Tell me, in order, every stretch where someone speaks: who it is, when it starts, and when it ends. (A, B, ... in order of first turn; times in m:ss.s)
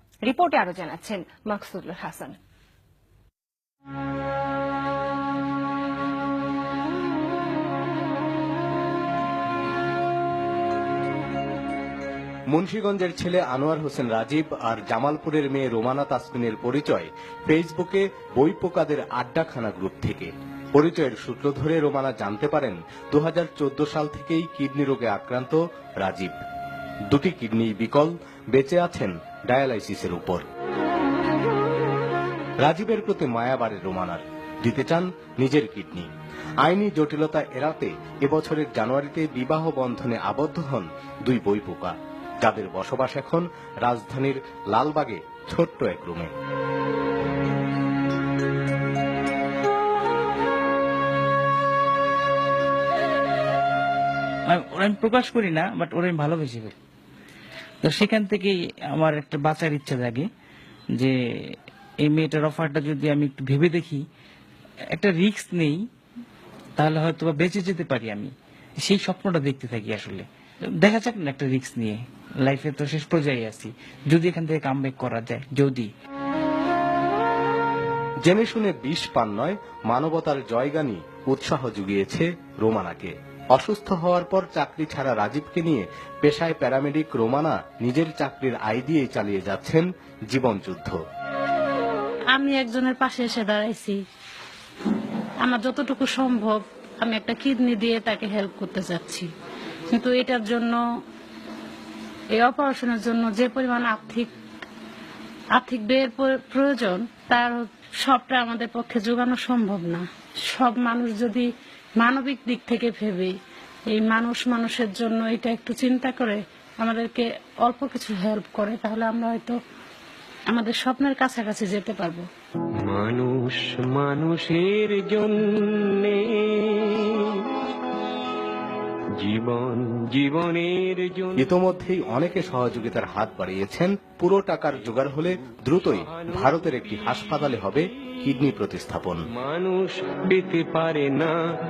0:00.2-0:02.3 A
0:12.5-0:26.4 B
0:27.1-0:30.4 B
0:32.6-0:36.1 B
0:36.6-0:46.3 B
0:54.5-0:56.8 C
0:57.8-1:00.3 C
1:00.9-1:04.0 C
1:04.9-1:05.8 C
1:06.8-1:15.9 C
1:18.2-1:31.0 B
1:32.4-1:34.0 D
1:35.4-1:39.3 D
1:40.0-1:40.7 D
1:42.4-1:44.3 D
1:45.6-1:50.0 D
1:50.6-1:51.4 D
1:52.0-1:53.3 D
1:54.0-1:59.5 D
2:00.5-2:02.2 D
2:02.8-2:07.4 E
2:09.2-2:11.4 E
2:11.4-2:19.2 B
2:16.1-2:16.5 E
2:19.4-2:21.4 E